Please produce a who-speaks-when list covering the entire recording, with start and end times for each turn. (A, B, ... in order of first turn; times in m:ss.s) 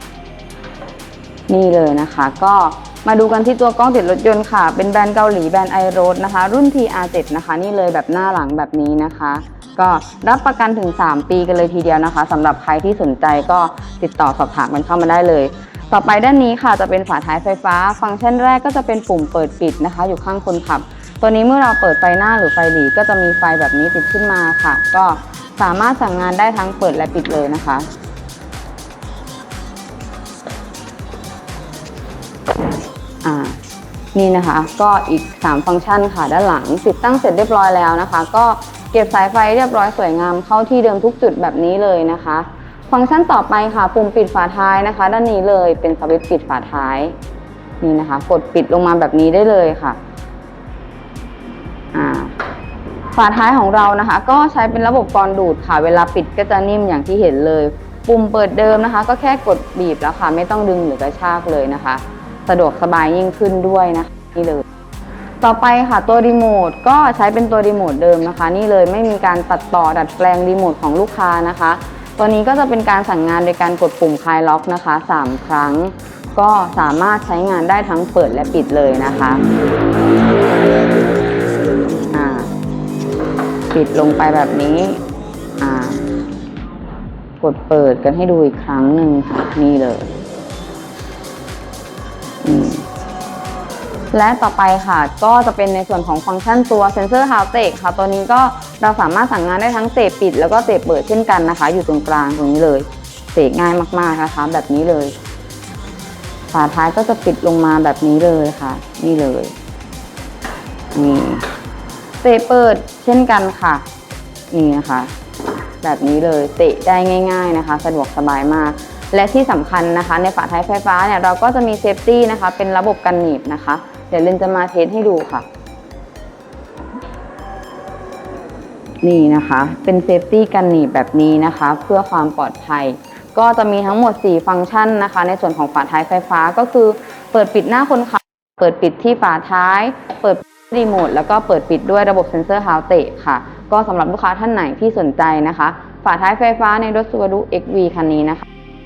0:01.5-0:27.9 A
0:33.2-0:33.6 A
0:34.1-0:47.2 A
0:47.8-0:50.0 A
0:51.9-0:52.4 A
0:53.1-1:04.6 A
1:05.4-1:19.4 A
1:22.1-1:22.5 A
1:23.7-1:25.0 A
1:25.6-1:26.0 A
1:27.4-1:30.2 A
1:32.4-1:32.9 A
1:34.1-1:45.2 A
1:46.5-1:49.5 A
1:50.9-1:51.5 A
1:52.2-1:53.8 A
1:54.5-1:55.1 A
1:55.8-2:05.5 A
2:09.0-2:28.5 A